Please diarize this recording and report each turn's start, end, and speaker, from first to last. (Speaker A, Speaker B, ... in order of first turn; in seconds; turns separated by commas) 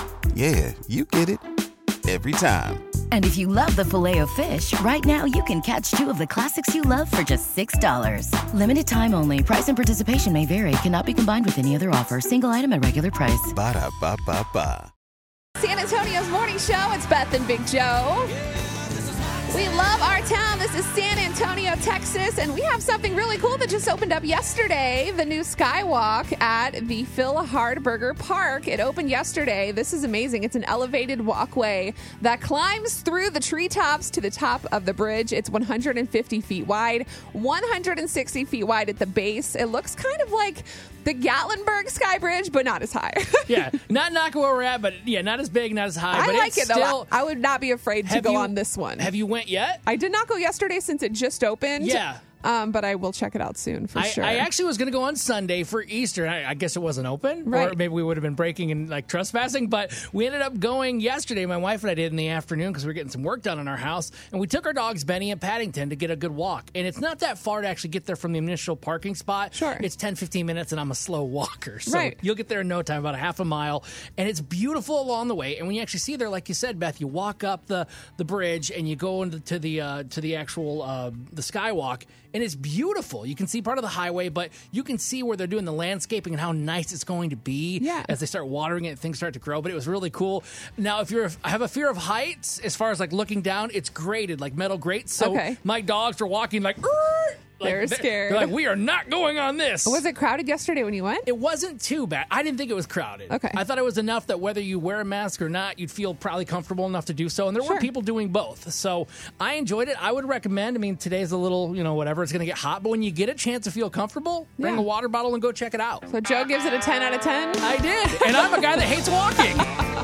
Speaker A: 0.3-1.4, Speaker A: 2.0-2.8, Speaker B: 3.1-13.5, Speaker A: 13.5-14.9, Speaker C: 15.6-18.4, Speaker C: 19.5-43.7, Speaker D: 43.5-47.1, Speaker C: 46.1-49.1, Speaker D: 48.0-49.8, Speaker C: 49.8-54.5, Speaker D: 51.8-52.2, Speaker D: 54.0-100.0, Speaker C: 57.4-57.8, Speaker C: 69.5-69.8, Speaker C: 71.8-72.2, Speaker C: 87.8-88.1, Speaker C: 95.2-95.6, Speaker C: 97.6-98.5, Speaker C: 99.8-101.3, Speaker D: 101.3-116.0, Speaker C: 103.3-103.6, Speaker C: 107.6-107.9, Speaker C: 114.6-114.8, Speaker C: 116.1-118.8, Speaker D: 117.6-119.7